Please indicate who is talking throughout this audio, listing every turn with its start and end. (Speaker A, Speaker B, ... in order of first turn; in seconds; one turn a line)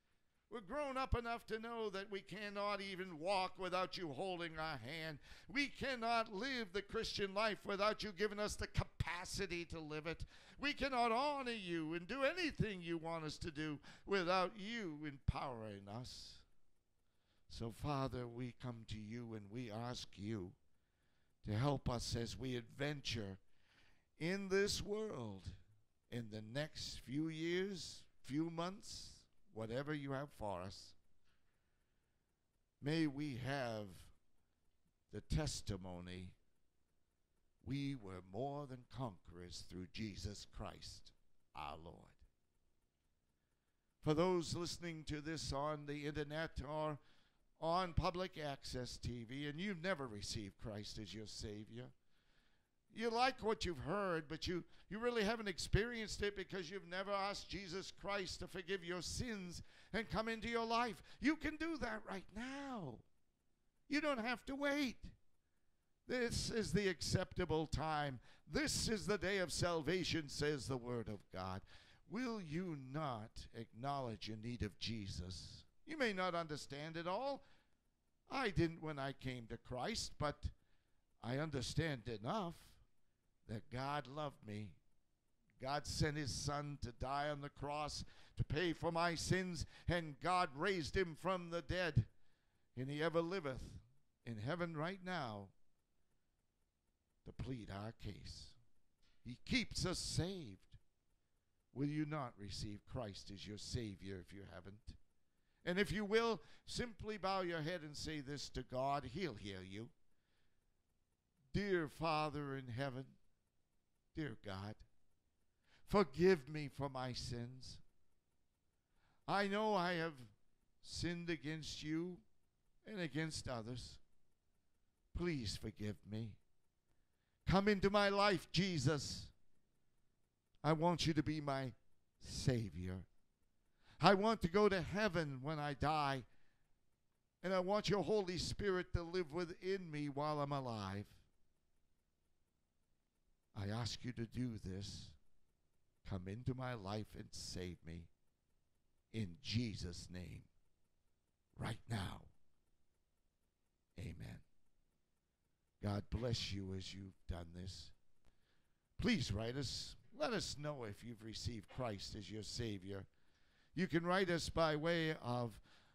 Speaker A: 0.5-16.4
Speaker A: 17.5-20.6
Speaker A: 21.4-23.4
Speaker A: 24.2-25.6
Speaker A: 26.1-31.0
Speaker A: 32.8-34.1
Speaker A: 35.1-36.4
Speaker A: 37.6-42.2
Speaker A: 44.0-47.0
Speaker A: 47.6-51.9
Speaker A: 52.9-63.0
Speaker A: 63.9-65.1
Speaker A: 66.0-77.4
Speaker A: 78.3-80.5
Speaker A: 81.2-82.8
Speaker A: 83.5-84.8
Speaker A: 85.6-92.1
Speaker A: 92.8-95.5
Speaker A: 97.2-98.6
Speaker A: 99.2-100.8
Speaker A: 101.7-105.0
Speaker A: 105.6-109.9
Speaker A: 111.5-113.2
Speaker A: 114.1-114.8
Speaker A: 115.9-117.8
Speaker A: 119.3-120.3
Speaker A: 120.8-122.2
Speaker A: 122.8-124.0
Speaker A: 125.1-126.4
Speaker A: 127.5-129.3
Speaker A: 130.6-133.1
Speaker A: 134.0-136.2
Speaker A: 137.4-141.2
Speaker A: 143.5-145.2
Speaker A: 146.0-148.1
Speaker A: 149.1-150.5
Speaker A: 151.6-152.3
Speaker A: 154.0-154.4
Speaker A: 155.8-157.9
Speaker A: 159.0-163.1
Speaker A: 163.7-165.6